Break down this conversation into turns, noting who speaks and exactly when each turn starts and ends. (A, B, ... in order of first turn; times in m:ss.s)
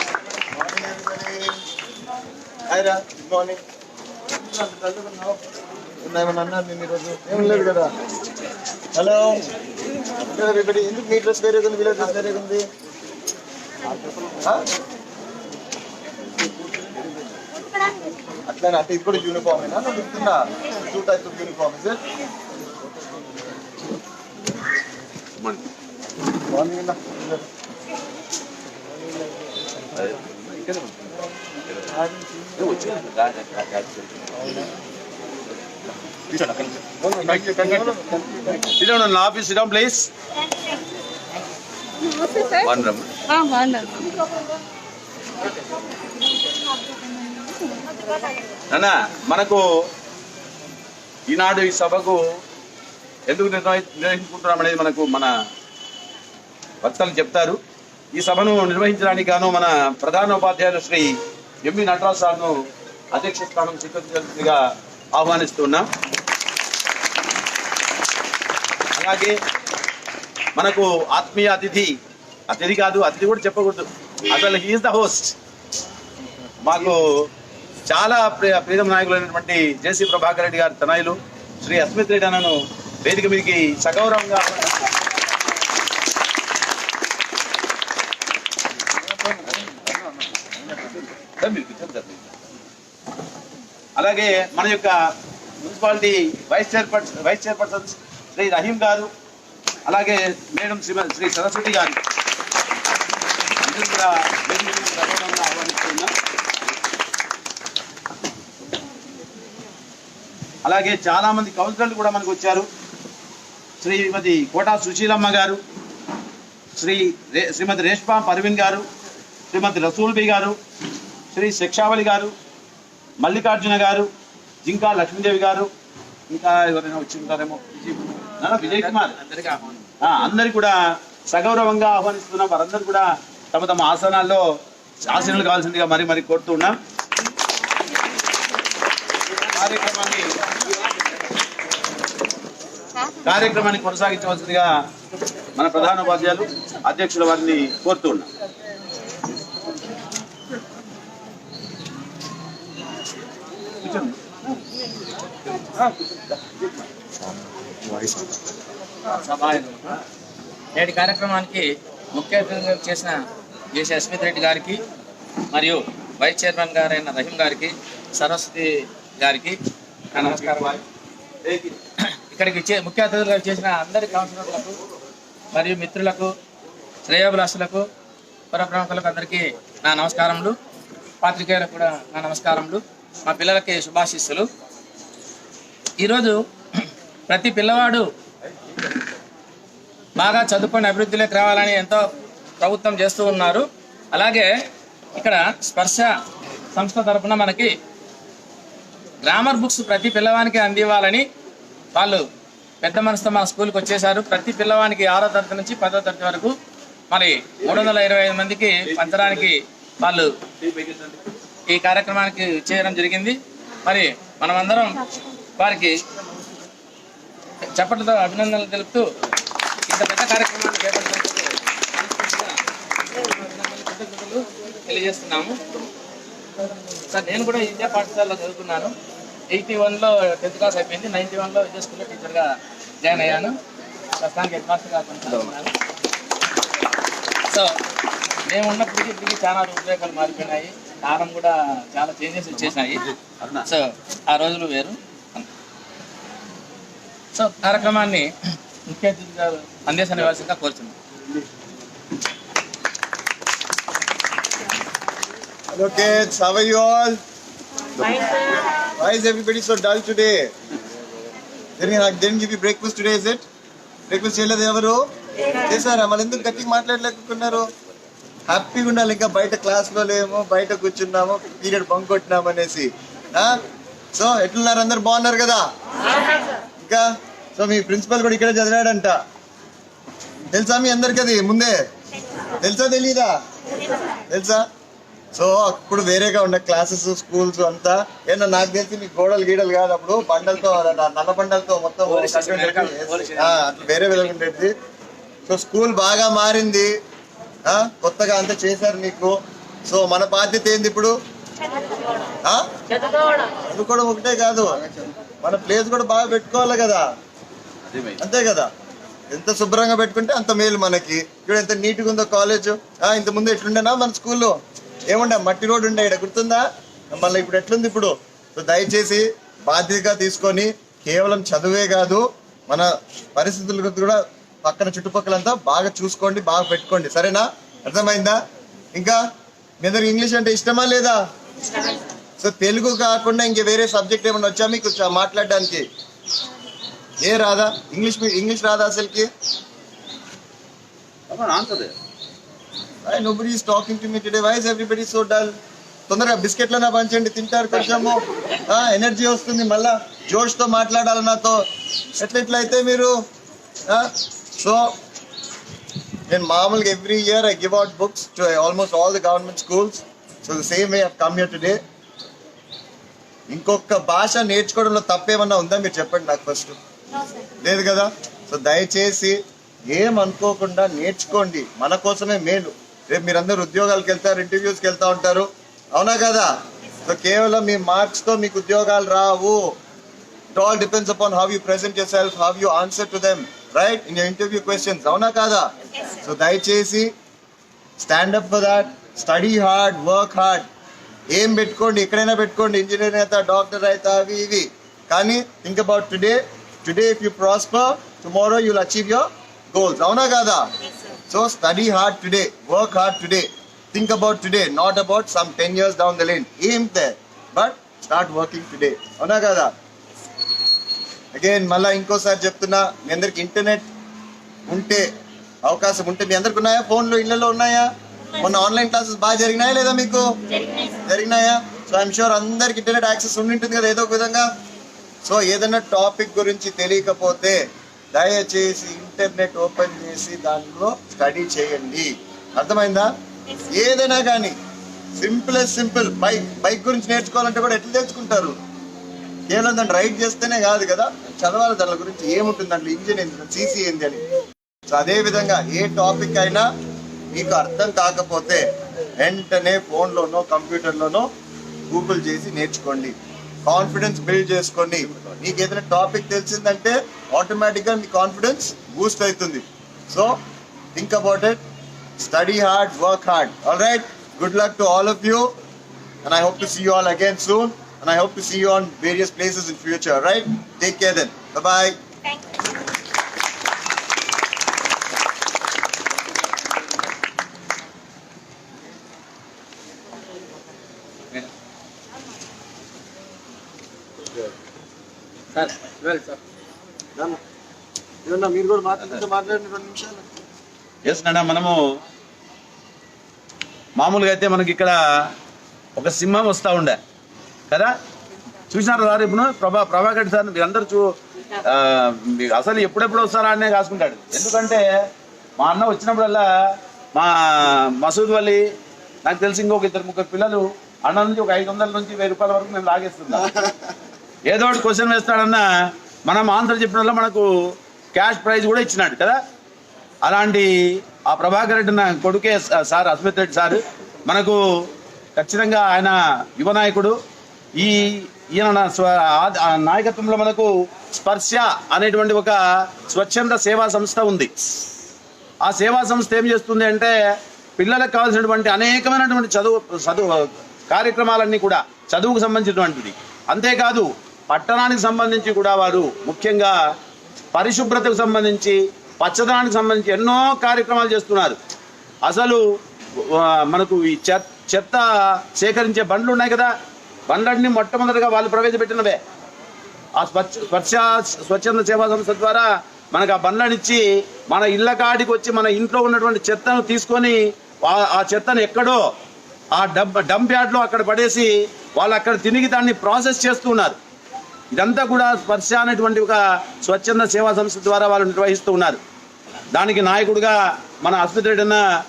0:00.5-0:01.6 A
0:02.7-0:03.6 A
0:04.6-0:05.4 B
0:06.0-0:08.0 A
0:08.9-0:09.4 A
0:10.1-0:12.6 A
0:14.4-0:14.6 A
0:18.5-0:22.0 A
0:26.5-0:27.4 A
0:29.9-0:32.0 B
0:32.0-0:32.5 A
0:32.6-0:34.7 B
0:36.3-0:38.1 B
0:37.0-0:38.6 A
0:38.6-0:40.1 B
0:42.5-0:43.1 B
0:48.7-0:49.6 B
0:51.3-0:52.2 B
0:53.3-0:55.3 B
0:56.8-0:57.6 B
0:58.2-1:02.5 B
1:03.1-1:04.6 B
1:05.2-1:05.9 B
1:09.0-1:09.4 B
1:10.6-1:11.9 B
1:12.5-1:15.3 B
1:16.6-1:17.0 B
1:17.9-1:24.7 B
1:29.3-1:30.0 B
1:30.6-1:32.3 B
1:34.0-1:35.0 B
1:35.6-1:39.1 B
1:39.9-1:42.0 B
1:43.6-1:46.1 B
1:50.6-1:52.7 B
1:53.8-1:55.6 B
1:56.8-1:58.8 B
1:59.5-2:00.6 B
2:01.3-2:02.3 B
2:03.2-2:04.1 B
2:04.6-2:05.7 B
2:06.3-2:09.2 B
2:08.6-2:09.8 C
2:10.0-2:14.4 B
2:15.1-2:16.8 B
2:19.5-2:20.7 B
2:23.2-2:24.7 B
2:25.6-2:28.3 B
2:33.8-2:34.2 B
2:35.6-2:36.8 B
2:37.8-2:38.3 A
2:39.1-2:39.9 C
2:40.8-2:43.2 C
2:43.7-2:44.8 C
2:45.5-2:49.6 C
2:50.1-2:50.8 C
2:50.2-2:50.8 B
2:51.4-2:51.8 B
2:52.1-2:54.8 C
2:55.5-2:56.3 C
2:57.0-2:57.8 C
2:58.5-3:00.5 C
3:01.2-3:04.5 C
3:06.0-3:06.4 C
3:07.3-3:08.1 C
3:10.2-3:12.0 C
3:12.6-3:14.5 C
3:15.1-3:16.1 C
3:16.7-3:17.7 C
3:19.2-3:21.2 C
3:21.9-3:22.2 C
3:22.8-3:26.5 C
3:27.1-3:30.3 C
3:27.6-3:27.9 B
3:28.8-3:29.5 B
3:30.6-3:31.2 B
3:31.7-3:35.0 C
3:35.6-3:36.0 C
3:37.8-3:39.1 C
3:39.9-3:42.6 C
3:43.1-3:45.9 C
3:47.1-3:48.9 C
3:49.5-3:53.5 C
3:54.2-3:55.7 C
3:57.5-3:57.8 C
3:58.5-4:03.0 C
4:02.6-4:03.7 B
4:03.7-4:05.4 C
4:07.3-4:08.3 C
4:08.9-4:10.9 C
4:15.7-4:17.2 A
4:18.0-4:20.4 A
4:21.8-4:23.4 A
4:24.1-4:25.0 A
4:25.6-4:27.7 A
4:28.5-4:33.6 A
4:34.2-4:35.6 A
4:37.6-4:39.2 A
4:40.5-4:41.8 A
4:42.6-4:43.4 A
4:44.3-4:44.6 A
4:45.3-4:54.7 A
4:52.1-4:53.6 C
4:55.5-4:56.9 A
4:57.7-4:59.4 A
4:59.9-5:01.2 A
5:03.6-5:04.9 A
5:05.4-5:07.0 A
5:07.9-5:08.2 B
5:08.2-5:08.7 A
5:09.3-5:14.5 A
5:15.1-5:28.4 A
5:28.9-5:29.2 A
5:29.8-5:31.2 A
5:32.4-5:35.9 A
5:37.2-5:39.3 A
5:41.3-5:41.9 B
5:43.0-5:45.5 A
5:46.1-5:51.6 A
5:52.2-5:53.1 A
5:53.9-5:54.9 A
5:56.3-6:01.8 A
6:03.5-6:06.8 A
6:07.4-6:16.5 A
6:17.0-6:19.8 A
6:20.5-6:27.1 A
6:28.0-6:30.7 A
6:31.3-6:40.7 A
6:41.3-6:49.7 A
6:51.4-6:53.9 A
6:54.7-6:55.1 A
6:55.6-7:04.5 A
7:05.2-7:07.6 A
7:08.1-7:14.6 A
7:15.2-7:18.6 A
7:19.5-7:24.2 A
7:24.9-7:26.7 A
7:27.3-7:28.6 A
7:29.2-7:31.3 A
7:31.9-7:40.4 A
7:40.9-7:41.6 A
7:42.2-7:45.5 A
7:46.2-7:51.9 A
8:05.5-8:06.4 C
8:08.2-8:10.3 A
8:11.0-8:11.8 B
8:14.0-8:15.3 B
8:16.0-8:17.0 B
8:18.7-8:21.1 B
8:21.6-8:24.8 B
8:25.6-8:26.5 B
8:27.2-8:28.6 B
8:29.2-8:33.5 B
8:34.5-8:35.6 B
8:36.3-8:37.5 B
8:38.1-8:39.4 B
8:40.2-8:44.6 B
8:45.4-8:47.2 B
8:47.8-8:54.5 B
8:55.6-8:57.1 B
8:57.8-9:06.8 B
9:07.5-9:11.6 B
9:12.2-9:12.6 B
9:13.2-9:16.7 B
9:17.3-9:19.2 B
9:20.2-9:29.0 B
9:29.7-9:34.0 B
9:34.7-9:39.0 B
9:39.7-9:41.8 B